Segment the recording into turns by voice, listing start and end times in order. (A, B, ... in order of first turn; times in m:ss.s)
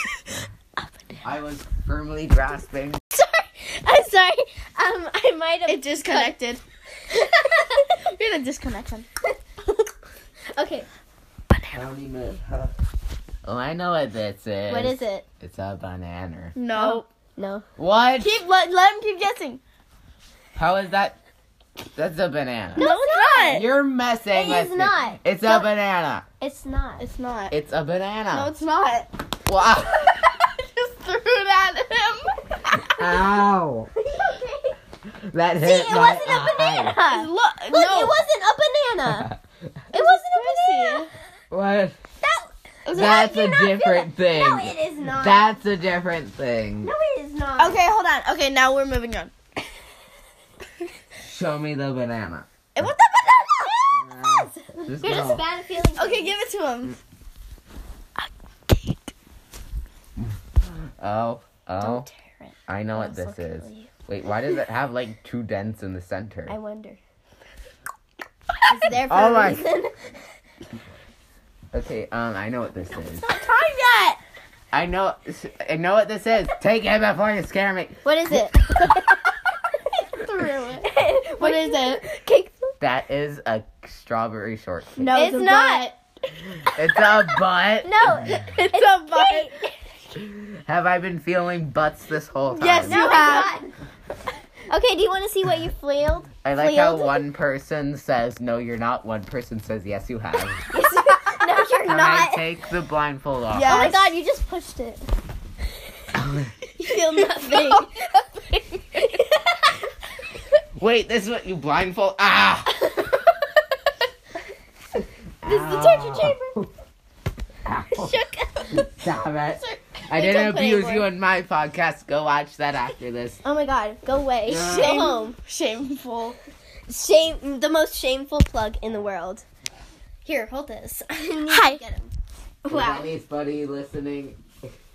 0:01.2-0:03.0 A
0:03.1-0:06.4 B
0:05.7-0:06.6 C
0:07.1-0:07.9 B
0:07.9-0:09.1 C
0:09.3-0:09.9 B
0:10.5-0:10.9 B
0:11.7-0:12.8 A
0:13.4-0:16.6 A
0:14.7-0:15.3 B
0:16.6-0:17.1 C
0:16.7-0:17.7 B
0:17.8-0:18.3 A
0:18.2-0:19.6 C
0:20.6-0:21.2 A
0:21.9-0:22.9 A
0:22.8-0:23.7 B
0:22.8-0:23.7 C
0:23.5-0:26.2 A
0:24.3-0:25.6 B
0:26.4-0:27.1 B
0:27.0-0:27.5 C
0:27.5-0:28.5 A
0:28.3-0:29.1 C
0:29.5-0:30.1 A
0:29.9-0:32.9 C
0:32.8-0:33.9 A
0:34.0-0:34.8 B
0:35.1-0:37.0 A
0:35.6-0:39.3 B
0:37.1-0:38.2 C
0:39.1-0:39.4 A
0:39.9-0:41.1 B
0:39.9-0:41.1 C
0:41.5-0:42.0 A
0:42.2-0:45.6 B
0:42.8-0:43.3 C
0:42.9-0:46.9 A
0:46.8-0:47.8 B
0:47.6-0:49.3 C
0:51.2-0:52.9 A
0:52.8-0:54.0 C
0:54.0-0:55.4 A
0:54.1-0:56.4 B
0:56.0-0:57.0 C
1:01.0-1:02.1 A
1:01.8-1:03.9 B
1:02.7-1:06.6 A
1:06.5-1:07.0 B
1:08.7-1:10.2 B
1:09.1-1:09.6 A
1:11.7-1:13.3 A
1:12.9-1:14.2 B
1:14.7-1:18.5 A
1:18.0-1:19.2 B
1:20.1-1:22.1 C
1:20.8-1:22.7 B
1:22.8-1:25.1 A
1:25.0-1:26.0 C
1:25.1-1:25.9 B
1:26.7-1:28.3 A
1:27.8-1:29.6 B
1:28.3-1:29.7 C
1:30.2-1:33.1 A
1:32.6-1:33.6 C
1:32.8-1:33.7 B
1:34.7-1:37.3 B
1:36.4-1:40.6 A
1:40.7-1:42.5 B
1:41.7-1:44.0 A
1:43.5-1:44.1 C
1:43.7-1:45.1 B
1:46.2-1:46.5 A
1:46.8-1:47.9 B
1:47.0-1:48.0 C
1:48.9-1:49.8 B
1:50.8-1:52.8 A
1:55.4-1:56.7 A
1:55.4-1:56.6 B
1:57.6-2:03.4 A
1:57.9-1:58.9 B
2:00.1-2:01.1 B
2:03.4-2:05.4 B
2:04.5-2:05.0 A
2:04.6-2:06.4 C
2:06.9-2:09.4 B
2:10.2-2:12.1 B
2:11.5-2:11.8 C
2:12.6-2:13.1 B
2:12.7-2:14.4 A